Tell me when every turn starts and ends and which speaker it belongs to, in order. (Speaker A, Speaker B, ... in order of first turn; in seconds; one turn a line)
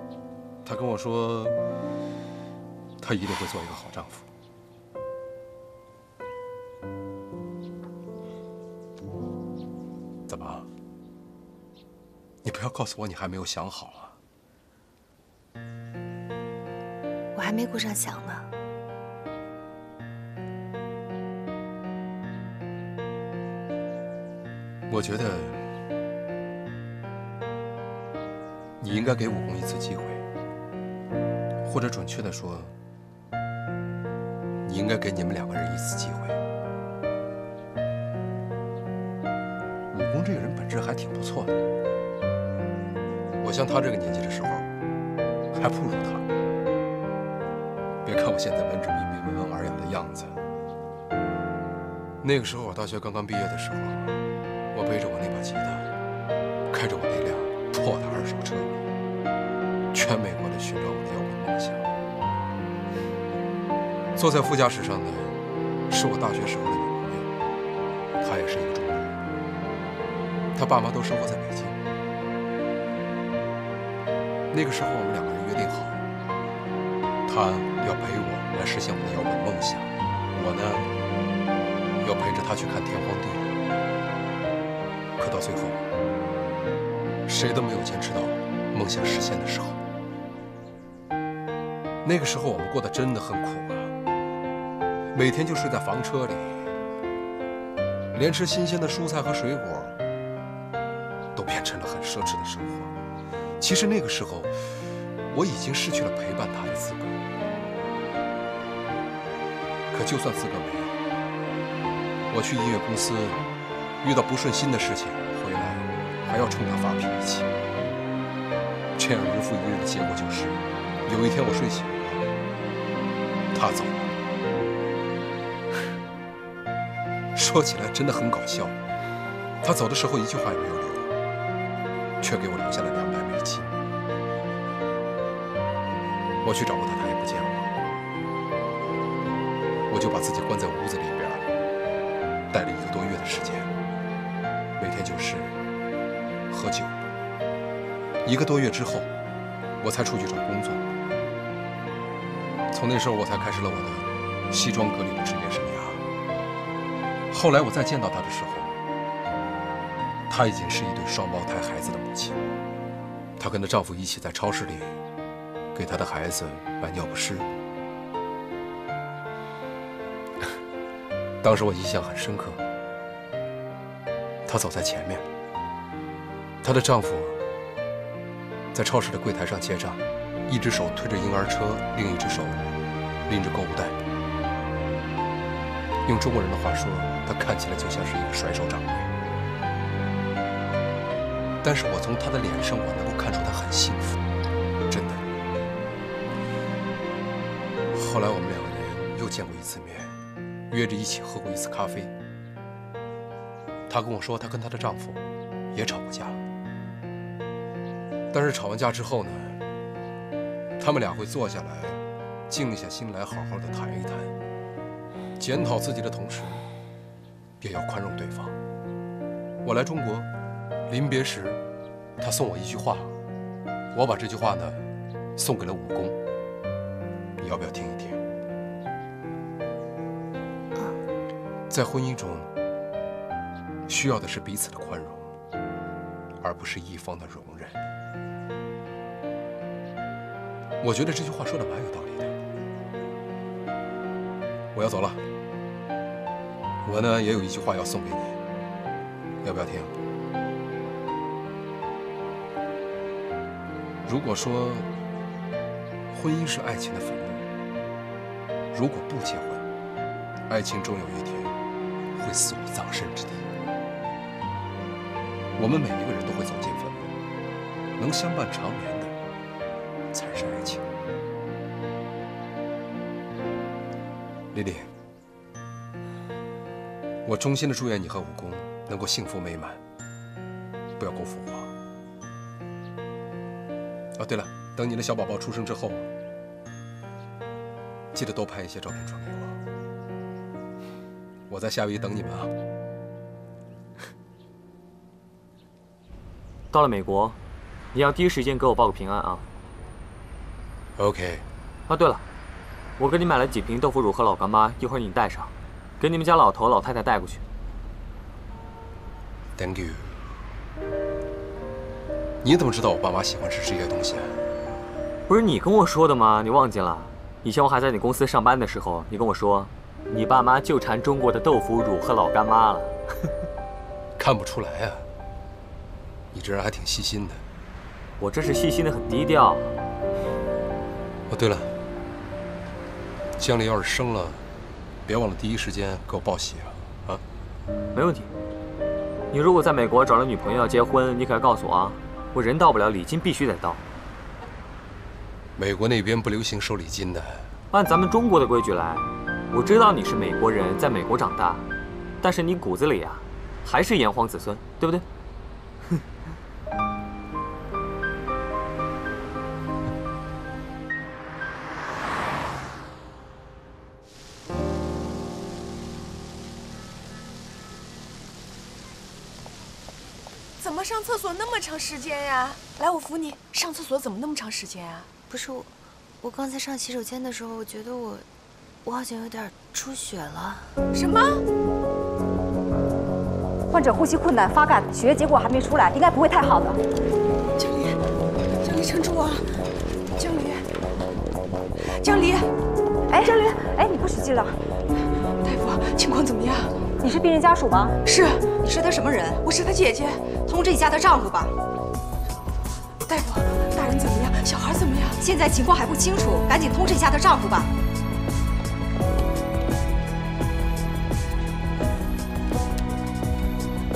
Speaker A: 0.7-1.6
Speaker A: 3.0-4.2
Speaker A: 10.3-10.7
Speaker A: 12.4-14.2
Speaker B: 17.4-18.5
Speaker A: 24.9-25.6
Speaker A: 28.8-30.2
Speaker A: 31.6-32.7
Speaker A: 34.6-36.4
Speaker A: 39.9-41.6
Speaker A: 43.4-44.7
Speaker A: 45.5-46.3
Speaker A: 48.0-50.4
Speaker A: 52.2-54.2
Speaker A: 54.7-55.9
Speaker A: 56.7-58.8
Speaker A: 59.9-61.9
Speaker A: 64.2-65.3
Speaker A: 65.9-67.3
Speaker A: 68.2-69.2
Speaker A: 70.5-71.8
Speaker A: 74.5-76.0
Speaker A: 77.3-80.9
Speaker A: 82.0-83.5
Speaker A: 85.2-85.8
Speaker A: 87.3-89.8
Speaker A: 92.0-93.9
Speaker A: 95.1-96.7
Speaker A: 98.1-100.0
Speaker A: 101.3-102.9
Speaker A: 103.6-107.2
Speaker A: 109.9-111.0
Speaker A: 112.3-113.4
Speaker A: 114.0-117.5
Speaker A: 119.0-122.2
Speaker A: 123.5-124.1
Speaker A: 127.3-128.8
Speaker A: 129.6-131.1
Speaker A: 132.2-133.7
Speaker A: 136.4-137.7
Speaker A: 139.9-141.5
Speaker A: 142.5-143.7
Speaker A: 144.8-145.5
Speaker A: 146.5-146.9
Speaker A: 148.2-149.1
Speaker A: 149.8-150.8
Speaker A: 152.7-156.0
Speaker A: 157.3-158.7
Speaker A: 160.3-162.4
Speaker A: 163.4-165.0
Speaker A: 165.8-167.5
Speaker A: 171.4-172.6
Speaker A: 174.5-175.3
Speaker A: 176.6-177.4
Speaker A: 178.7-182.7
Speaker A: 183.3-184.0
Speaker A: 186.1-189.1
Speaker A: 191.6-194.2
Speaker A: 194.9-195.3
Speaker A: 197.9-200.1
Speaker A: 200.7-202.1
Speaker A: 203.9-206.4
Speaker A: 208.3-209.6
Speaker A: 210.8-214.3
Speaker A: 215.4-216.6
Speaker A: 217.6-218.6
Speaker A: 219.6-220.3
Speaker A: 220.9-221.6
Speaker A: 222.2-223.1
Speaker A: 223.9-224.8
Speaker A: 225.4-226.2
Speaker A: 227.4-228.2
Speaker A: 231.7-232.5
Speaker A: 233.9-235.3
Speaker A: 236.4-237.8
Speaker A: 240.8-242.3
Speaker A: 244.7-245.2
Speaker A: 246.8-248.4
Speaker A: 249.4-249.9
Speaker A: 254.1-254.9
Speaker A: 256.1-257.4
Speaker A: 258.7-259.6
Speaker A: 260.5-261.5
Speaker A: 262.1-263.4
Speaker A: 265.6-267.1
Speaker A: 268.0-269.1
Speaker A: 270.1-270.9
Speaker A: 274.5-274.9
Speaker A: 277.2-279.8
Speaker A: 281.0-281.7
Speaker A: 284.2-286.1
Speaker A: 288.1-289.6
Speaker A: 291.5-292.5
Speaker C: 296.7-297.4
Speaker C: 297.9-299.5
Speaker A: 301.0-301.5
Speaker C: 301.9-302.2
Speaker C: 303.0-307.4
Speaker A: 309.6-310.1
Speaker A: 312.4-314.4
Speaker C: 315.3-322.9
Speaker A: 324.2-325.1
Speaker A: 326.3-327.4
Speaker C: 328.2-329.7
Speaker A: 331.3-331.7
Speaker A: 333.4-334.4
Speaker A: 335.1-337.2
Speaker C: 337.9-338.3
Speaker C: 339.3-343.8
Speaker A: 345.6-347.5
Speaker C: 347.7-351.6
Speaker C: 352.2-355.1
Speaker D: 370.6-375.1
Speaker B: 375.3-378.3
Speaker B: 378.8-380.8
Speaker D: 380.9-381.4
Speaker E: 383.7-386.8
Speaker D: 387.6-388.1
Speaker D: 388.6-390.7
Speaker D: 391.9-392.5
Speaker E: 393.1-394.6
Speaker D: 395.4-396.8
Speaker E: 397.0-397.9
Speaker D: 398.0-398.7
Speaker F: 398.6-399.4
Speaker D: 399.4-400.4
Speaker F: 400.4-401.5
Speaker D: 403.0-405.2
Speaker F: 405.2-407.7